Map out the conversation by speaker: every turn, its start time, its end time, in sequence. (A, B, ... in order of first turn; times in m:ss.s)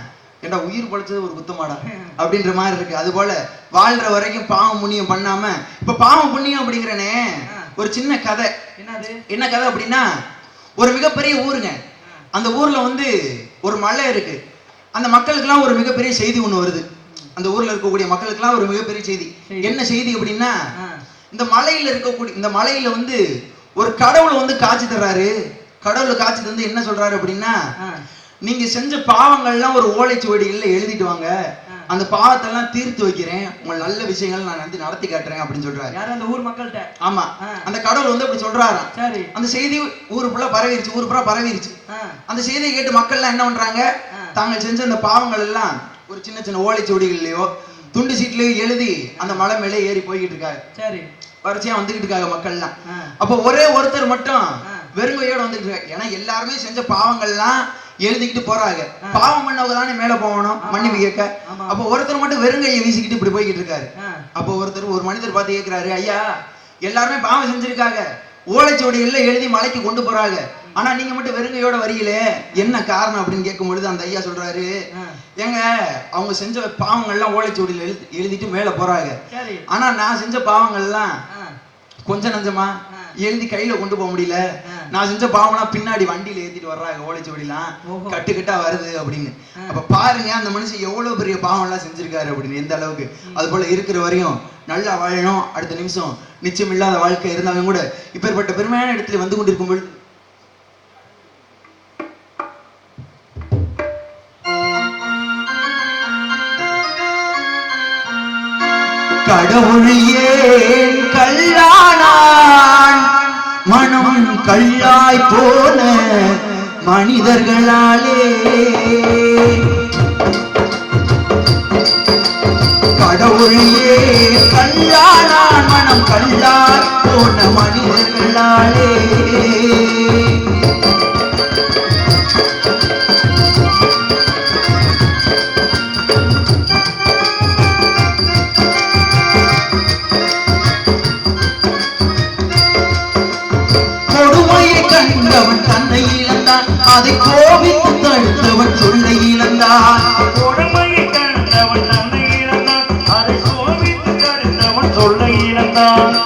0:00.4-0:08.5 A
0:08.8-0:09.2 B
0:09.3-0:10.0 A
0:10.8-0:11.8 A
0:12.3-0:14.4 A
0:15.0-0:16.8 A
0:17.4-0:20.5 A
0:19.5-0:19.8 B
0:21.3-0:23.2 A
0:23.8-0:27.6 A
0:28.4-0:31.3 A
0:31.9-0:35.9 A
0:35.9-0:36.9 B
0:37.0-0:41.8 A
0:38.9-0:39.3 B
0:41.9-0:42.2 B
0:42.3-0:50.6 A
0:50.8-0:51.1 B
0:51.4-1:14.7 A
1:00.6-1:01.7 B
1:04.0-1:04.2 B
1:15.4-1:21.2 A
1:19.3-1:19.6 B
1:22.0-1:39.9 A
1:27.9-1:28.2 B
1:49.2-1:59.9 A
2:03.0-2:10.6 A
2:24.1-2:30.2 A
2:30.3-2:36.1 C